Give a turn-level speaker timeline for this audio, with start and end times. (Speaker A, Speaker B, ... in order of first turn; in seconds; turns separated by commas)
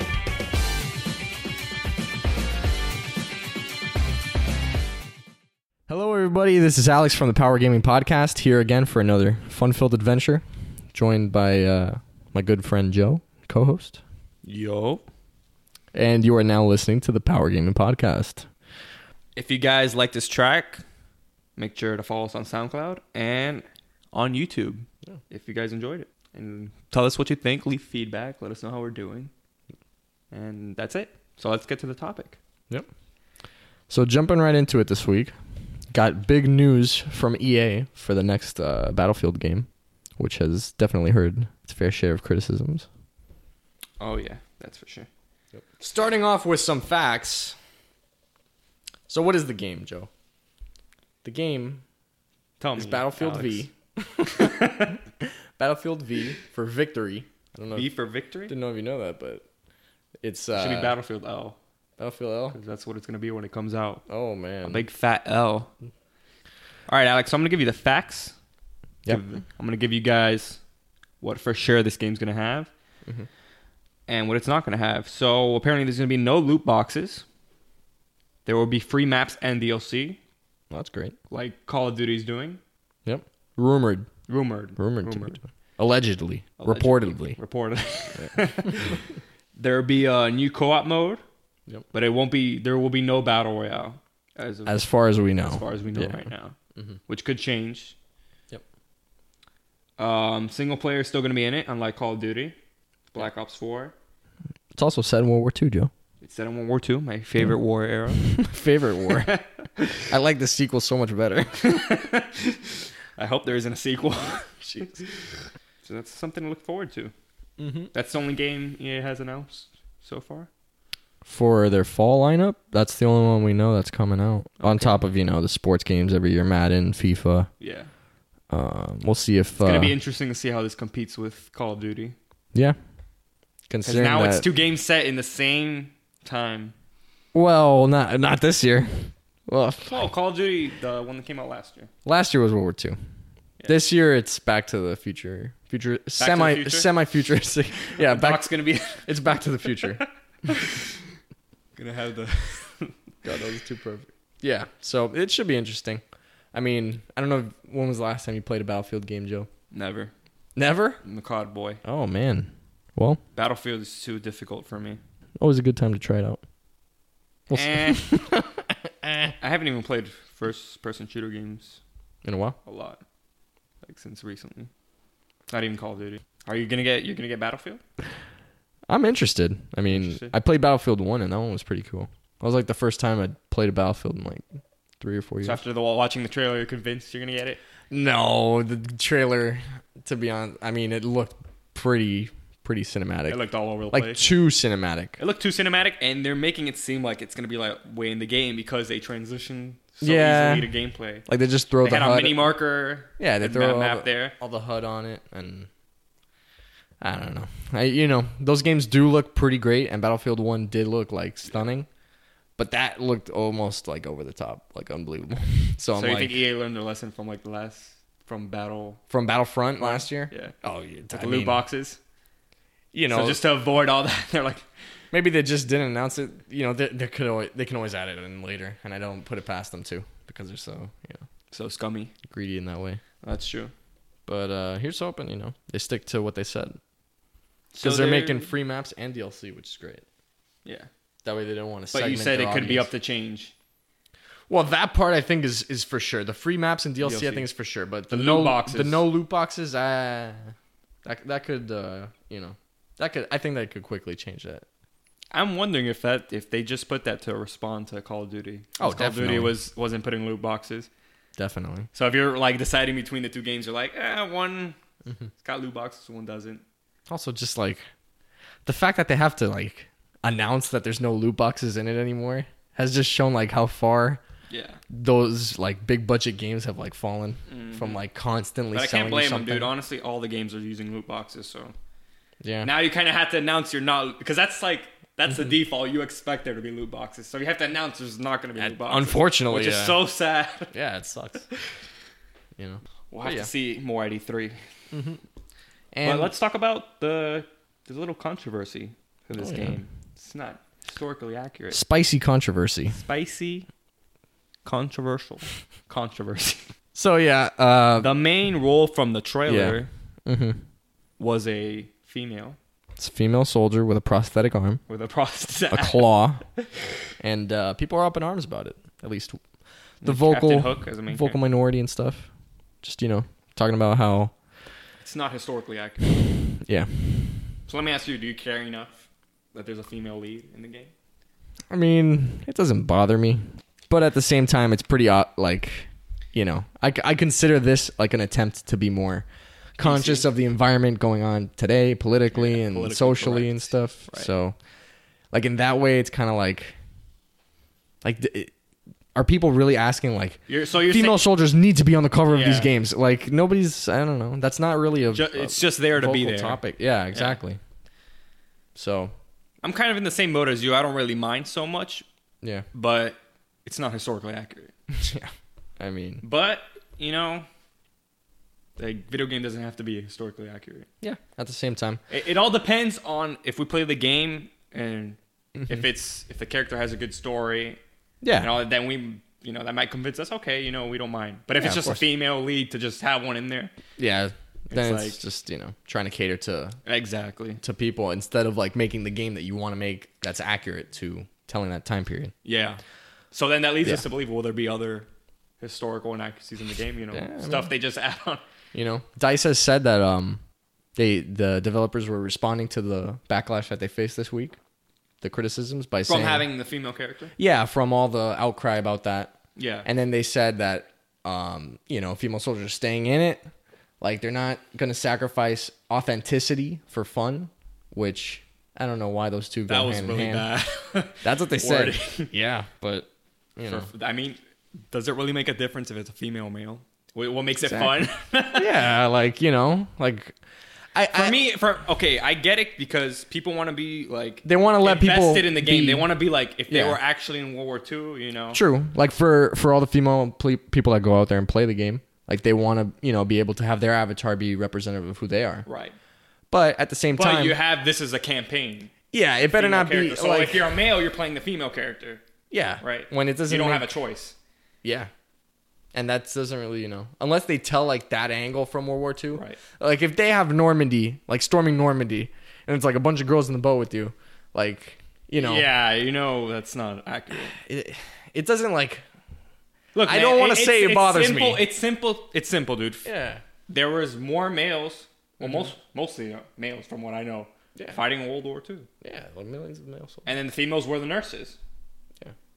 Speaker A: 5.9-14.0, Speaker B: 14.4-15.0, Speaker A: 15.9-18.5, Speaker B: 19.4-20.8, Speaker B: 21.6-29.3, Speaker B: 30.3-32.4, Speaker A: 33.9-35.3, Speaker A: 35.9-42.9, Speaker B: 44.0-45.1, Speaker A: 45.5-47.6, Speaker A: 49.1-50.1, Speaker A: 51.2-51.8, Speaker B: 52.6-53.6, Speaker A: 52.8-57.9, Speaker B: 54.3-55.0, Speaker B: 57.7-58.5, Speaker A: 58.5-59.5, Speaker A: 60.2-61.0, Speaker B: 60.5-61.6, Speaker A: 62.0-62.6, Speaker B: 62.5-64.0, Speaker A: 64.1-64.8, Speaker B: 64.7-65.7, Speaker B: 66.9-68.3, Speaker B: 69.1-70.6, Speaker B: 71.2-72.7, Speaker B: 74.1-77.2, Speaker B: 78.5-80.2, Speaker A: 80.7-81.2, Speaker B: 81.3-82.6, Speaker A: 83.0-84.1, Speaker B: 84.3-85.4, Speaker A: 84.8-87.4, Speaker B: 86.6-91.2, Speaker B: 91.9-94.8, Speaker A: 94.7-97.0, Speaker B: 95.4-96.6, Speaker B: 97.1-98.0, Speaker B: 100.0-102.5, Speaker B: 103.1-104.0, Speaker A: 104.8-105.9, Speaker B: 106.2-108.3, Speaker A: 108.2-109.4, Speaker B: 109.2-109.8, Speaker A: 110.0-111.9, Speaker B: 111.6-117.1, Speaker A: 117.6-117.9, Speaker B: 117.9-120.5, Speaker A: 121.2-127.5, Speaker B: 124.6-125.0, Speaker B: 127.6-127.9, Speaker A: 128.5-129.9, Speaker B: 129.6-132.2, Speaker A: 133.7-134.5, Speaker B: 133.8-136.7, Speaker A: 137.3-140.0, Speaker B: 139.9-141.9, Speaker A: 142.1-143.0, Speaker A: 143.7-150.0, Speaker B: 146.2-146.9, Speaker B: 148.0-149.1, Speaker B: 150.5-151.0, Speaker B: 151.8-152.9, Speaker A: 153.2-156.0, Speaker A: 156.5-159.5, Speaker B: 159.7-160.1, Speaker A: 160.6-161.0, Speaker B: 161.0-161.8, Speaker A: 161.8-163.2, Speaker B: 163.3-165.0, Speaker A: 165.4-166.4, Speaker A: 167.5-169.3, Speaker B: 167.5-168.1, Speaker B: 169.4-171.8, Speaker A: 172.2-172.6, Speaker B: 172.7-173.0, Speaker B: 173.8-174.7, Speaker B: 175.5-177.8, Speaker A: 178.9-184.5, Speaker B: 179.9-180.3, Speaker A: 185.0-185.6, Speaker B: 185.4-187.6, Speaker A: 187.9-195.2, Speaker B: 193.3-194.3, Speaker B: 195.2-201.3, Speaker A: 200.0-200.7, Speaker A: 201.3-202.6, Speaker B: 201.8-204.3, Speaker A: 203.2-205.7, Speaker A: 207.0-211.9, Speaker A: 212.6-216.4, Speaker B: 215.9-219.0, Speaker A: 219.1-221.7, Speaker B: 219.8-220.5, Speaker B: 221.1-222.0, Speaker A: 222.9-223.4, Speaker B: 223.1-224.7, Speaker A: 225.1-231.2, Speaker B: 231.5-232.1, Speaker A: 232.3-233.0, Speaker B: 233.2-233.7, Speaker A: 234.3-236.8, Speaker B: 237.7-238.5, Speaker A: 237.8-240.0, Speaker A: 241.2-242.9, Speaker B: 241.9-243.5, Speaker A: 244.5-254.7, Speaker B: 247.0-247.5, Speaker B: 248.1-249.1, Speaker B: 255.3-260.9, Speaker A: 258.8-259.6, Speaker A: 261.4-261.9, Speaker B: 261.9-264.8, Speaker B: 265.4-266.6, Speaker A: 267.1-267.8, Speaker A: 268.6-274.2, Speaker B: 274.5-274.8, Speaker A: 274.9-279.7, Speaker B: 277.5-278.0, Speaker B: 278.7-281.7, Speaker A: 282.4-282.7, Speaker B: 282.6-290.7, Speaker A: 288.6-290.0, Speaker A: 290.7-291.5, Speaker A: 292.6-293.5, Speaker B: 293.1-294.6, Speaker A: 294.9-295.2, Speaker A: 295.9-296.3, Speaker B: 296.0-301.8, Speaker A: 299.4-299.8, Speaker A: 301.7-303.0, Speaker B: 302.9-303.7, Speaker B: 304.6-306.7, Speaker A: 306.9-308.2, Speaker B: 308.0-309.9, Speaker A: 309.5-310.6, Speaker B: 311.2-312.6, Speaker A: 313.0-314.8, Speaker B: 314.9-316.1, Speaker A: 315.7-316.4, Speaker A: 317.2-319.4, Speaker A: 320.0-322.3, Speaker B: 320.0-321.4, Speaker A: 322.8-324.3, Speaker B: 325.0-326.2, Speaker A: 326.6-327.4, Speaker B: 327.7-330.9, Speaker A: 331.7-339.3, Speaker A: 339.8-344.6, Speaker B: 339.8-340.3, Speaker B: 342.3-344.3, Speaker A: 345.3-346.8, Speaker A: 348.0-348.5, Speaker A: 349.1-357.6, Speaker B: 350.5-351.2, Speaker B: 352.3-352.7, Speaker B: 355.1-356.6, Speaker B: 357.1-357.4, Speaker A: 358.8-359.1, Speaker B: 359.6-362.1, Speaker B: 362.7-364.7, Speaker A: 364.9-366.2, Speaker B: 366.2-367.5, Speaker B: 368.8-370.9, Speaker A: 371.0-372.0, Speaker B: 372.1-377.8, Speaker A: 378.2-378.5, Speaker B: 378.4-383.7, Speaker A: 381.6-382.0, Speaker A: 384.0-386.8, Speaker B: 384.7-385.2, Speaker B: 386.9-387.6, Speaker A: 387.6-392.3, Speaker B: 392.4-392.8, Speaker B: 393.3-395.1, Speaker B: 395.6-398.4, Speaker A: 397.1-397.7, Speaker A: 398.7-400.4, Speaker A: 401.0-404.6, Speaker A: 405.2-406.5, Speaker B: 406.1-407.3, Speaker A: 407.4-413.5, Speaker B: 409.6-409.9, Speaker A: 414.0-420.5, Speaker B: 419.7-422.3, Speaker A: 421.2-423.9, Speaker B: 423.6-424.4, Speaker B: 424.9-428.8, Speaker A: 427.7-427.9, Speaker A: 428.6-430.4, Speaker A: 430.9-431.4, Speaker B: 431.1-438.6, Speaker A: 434.4-436.1, Speaker A: 436.7-437.0, Speaker A: 438.5-445.7, Speaker B: 445.6-446.0, Speaker A: 446.5-447.6, Speaker B: 447.2-448.9, Speaker A: 449.1-450.7, Speaker B: 449.5-452.2, Speaker A: 452.5-453.9, Speaker B: 452.8-454.4, Speaker A: 454.8-455.1, Speaker A: 455.9-465.7, Speaker B: 459.4-459.6, Speaker B: 465.4-467.6, Speaker A: 467.5-469.0, Speaker B: 469.9-473.1, Speaker A: 470.1-471.7, Speaker A: 473.1-473.4, Speaker B: 473.7-478.9, Speaker A: 475.4-475.7, Speaker A: 477.8-478.0, Speaker A: 479.0-480.3, Speaker B: 480.2-481.6